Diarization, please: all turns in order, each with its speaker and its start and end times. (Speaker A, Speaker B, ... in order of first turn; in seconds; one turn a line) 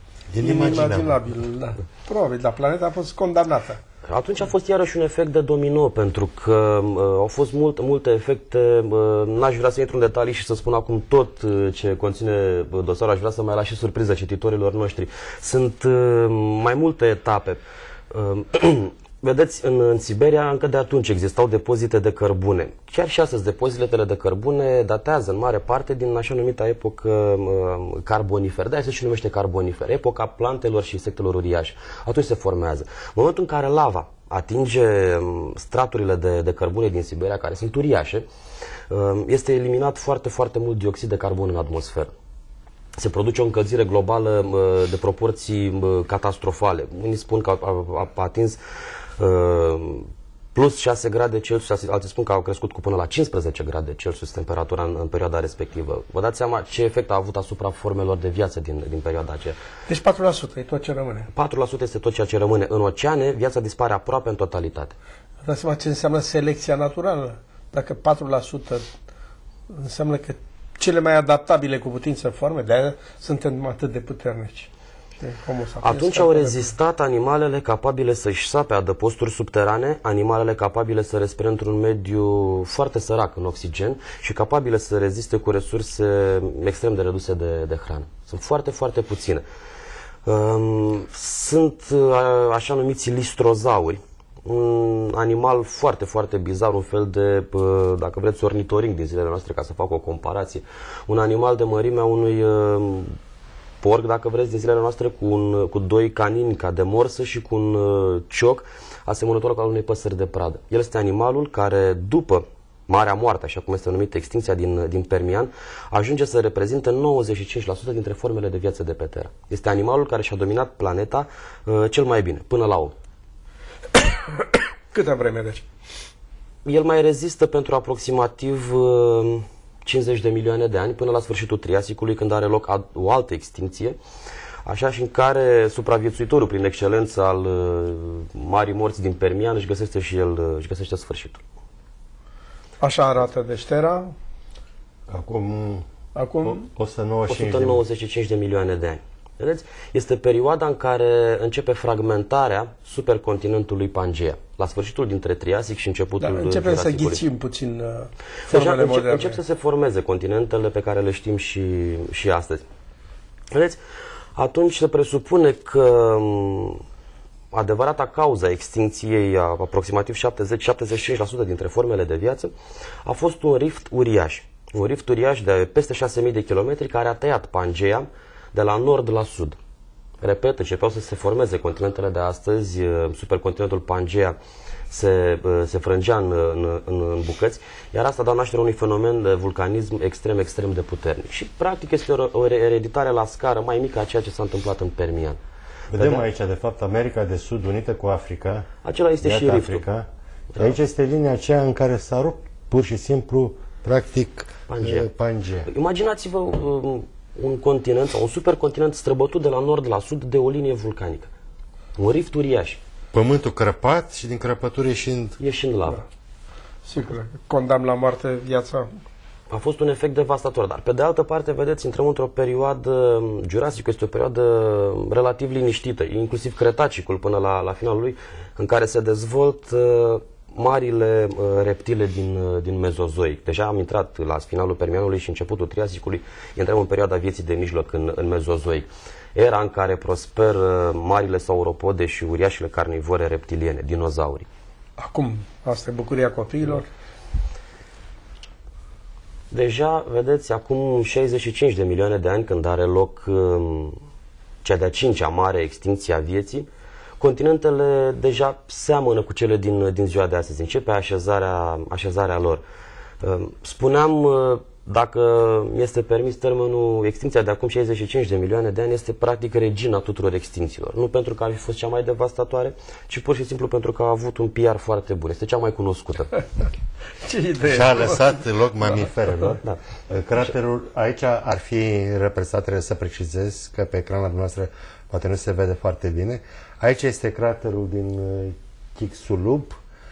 Speaker A: 0.3-1.2
Speaker B: 0.4-3.8
Speaker C: 4.1-38.3
Speaker C: 38.9-42.1
Speaker C: 43.0-48.6
Speaker C: 49.2-59.6
Speaker B: 59.9-61.3
Speaker C: 61.3-64.9
Speaker B: 65.4-68.9
Speaker B: 69.7-74.7
Speaker B: 75.2-76.7
Speaker C: 75.8-89.4
Speaker C: 90.3-103.2
Speaker C: 103.8-122.9
Speaker B: 124.9-125.7
Speaker C: 126.7-134.0
Speaker C: 134.7-141.4
Speaker B: 142.8-144.1
Speaker A: 145.1-145.8
Speaker B: 146.2-146.7
Speaker A: 146.4-147.8
Speaker C: 147.3-157.2
Speaker B: 156.2-159.4
Speaker C: 158.5-162.6
Speaker C: 163.5-163.8
Speaker C: 164.4-166.8
Speaker C: 167.5-172.5
Speaker C: 173.1-179.6
Speaker C: 180.2-184.4
Speaker C: 184.9-195.4
Speaker C: 195.9-196.3
Speaker A: 195.9-198.7
Speaker C: 198.8-199.8
Speaker A: 199.2-200.1
Speaker A: 200.6-205.7
Speaker C: 204.7-205.1
Speaker C: 205.7-211.3
Speaker C: 212.0-212.8
Speaker A: 213.1-215.4
Speaker C: 215.4-216.0
Speaker B: 216.9-218.9
Speaker C: 219.5-244.5
Speaker B: 245.0-246.9
Speaker C: 249.5-254.0
Speaker C: 254.6-256.7
Speaker C: 257.2-262.6
Speaker C: 263.2-276.3
Speaker B: 277.2-278.4
Speaker A: 277.6-289.8